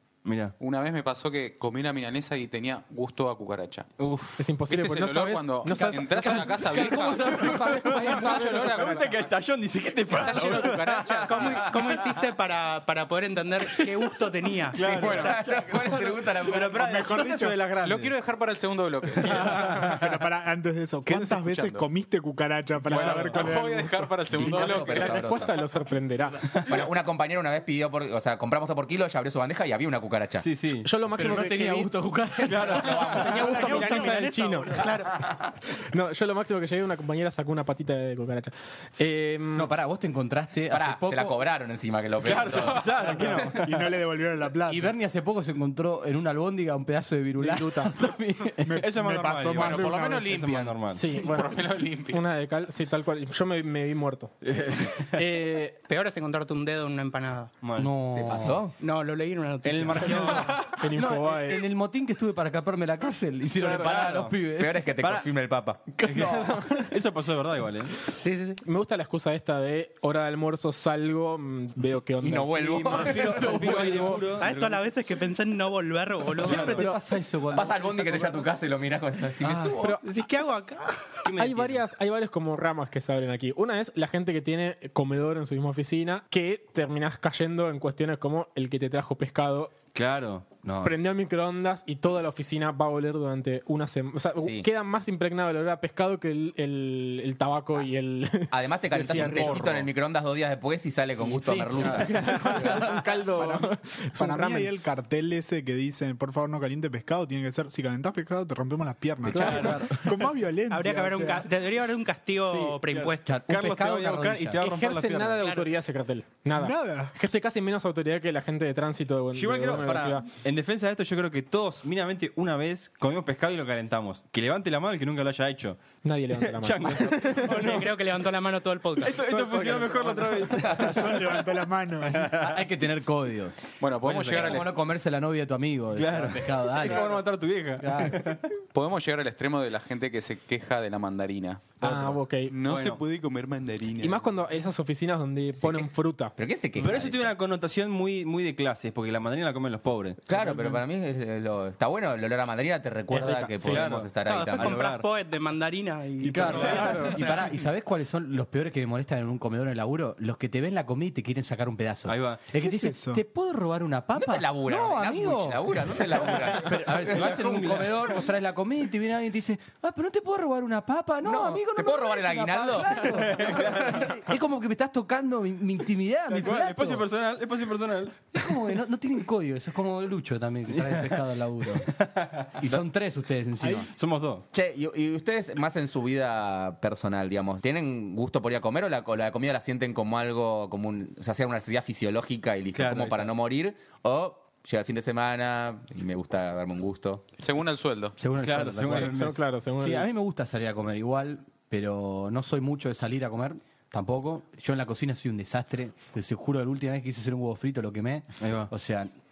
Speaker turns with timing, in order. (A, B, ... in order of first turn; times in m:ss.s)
0:00.2-0:00.5 A
0:00.6-0:03.9 B
0:04.0-0:04.4 A
0:04.4-0:09.1 C
0:04.7-0:09.3 B
0:05.9-0:08.4 D
0:07.3-0:12.2 A
0:10.1-0:11.8 B
0:11.2-0:15.4 E
0:13.7-0:14.2 A
0:14.7-0:18.1 A
0:14.8-0:15.4 B
0:14.8-0:16.9 F
0:16.7-0:17.6 G
0:17.8-0:19.9 B
0:19.2-0:20.0 A
0:19.3-0:19.6 C
0:19.4-0:24.5 G
0:21.1-0:21.8 B
0:22.9-0:25.2 B
0:22.9-0:23.5 A
0:24.3-0:25.6 F
0:24.5-0:26.4 C
0:26.6-0:30.5 F
0:30.4-0:30.9 A
0:30.8-0:31.9 C
0:31.0-0:33.4 D
0:32.4-0:33.4 A
0:32.6-0:33.7 F
0:32.8-0:34.9 C
0:33.3-0:35.2 E
0:35.8-0:39.7 C
0:39.5-0:41.4 D
0:40.7-0:43.4 F
0:42.2-0:43.9 A
0:42.3-0:42.8 B
0:43.0-0:44.9 G
0:44.6-0:48.8 D
0:47.4-0:48.0 C
0:48.6-0:50.4 G
0:48.8-0:51.2 A
0:49.5-0:52.2 B
0:50.9-0:55.8 C
0:54.4-0:55.2 A
0:55.9-0:57.6 E
0:57.6-0:58.4 A
0:57.7-0:58.7 D
0:58.1-0:58.7 F
0:58.8-1:00.6 E
0:59.6-1:00.6 A
0:59.9-1:01.6 C
1:00.8-1:04.9 D
1:03.7-1:04.4 A
1:03.7-1:06.0 F
1:05.0-1:05.3 A
1:06.0-1:08.0 A
1:06.1-1:06.7 D
1:06.4-1:06.9 C
1:08.2-1:08.6 E
1:08.6-1:14.3 C
1:12.2-1:13.6 F
1:12.9-1:14.8 A
1:13.3-1:14.2 D
1:14.3-1:16.8 E
1:16.4-1:18.5 D
1:16.4-1:16.9 A
1:16.5-1:17.0 C
1:17.5-1:20.0 F
1:19.4-1:19.8 A
1:19.8-1:20.0 C
1:20.0-1:21.2 E
1:21.2-1:21.8 A
1:21.4-1:29.7 C
1:29.9-1:30.5 A
1:30.6-1:31.1 D
1:30.8-1:39.8 C
1:34.4-1:34.7 F
1:38.5-1:43.0 F
1:41.3-1:44.7 C
1:41.8-1:42.1 D
1:43.3-1:51.5 G
1:49.3-1:49.7 F
1:49.3-1:50.0 D
1:49.3-1:49.8 C
1:50.7-1:53.4 E
1:52.4-1:52.8 C
1:52.9-1:55.4 A
1:53.2-1:54.6 D
1:54.6-2:00.2 C
1:55.4-1:55.7 E
1:56.5-1:57.1 G
1:59.3-2:05.8 A
2:06.0-2:07.8 C
2:06.3-2:08.0 A
2:07.3-2:09.3 E
2:09.0-2:11.5 A
2:09.2-2:10.5 C
2:10.7-2:12.4 G
2:12.0-2:12.6 A
2:12.3-2:13.6 D
2:13.8-2:14.8 B
2:14.0-2:14.6 A
2:14.3-2:17.3 D
2:15.9-2:18.4 A
2:17.8-2:18.4 D
2:18.7-2:24.3 B
2:21.8-2:22.5 C
2:22.6-2:23.0 A
2:24.0-2:26.3 C
2:25.6-2:27.3 F
2:26.8-2:30.2 A
2:30.3-2:34.8 F
2:33.1-2:33.9 C
2:33.6-2:35.0 A
2:34.2-2:37.5 E
2:36.2-2:37.1 G
2:36.2-2:57.1 D
2:36.6-2:37.2 C
2:42.1-2:42.5 A
2:42.5-2:43.2 G
2:44.2-2:47.3 F
2:46.3-2:48.2 A
2:51.2-2:53.7 F
2:53.0-2:54.1 A
2:56.3-2:58.5 A
2:58.3-3:01.9 D
3:00.7-3:01.2 A
3:01.8-3:02.8 A
3:02.6-3:03.9 D
3:03.6-3:03.9 G
3:03.9-3:04.4 A
3:04.5-3:17.2 F
3:12.7-3:13.3 A
3:17.4-3:18.2 B
3:18.2-3:29.1 D
3:18.4-3:19.4 A
3:18.8-3:20.1 C
3:28.4-3:28.7 A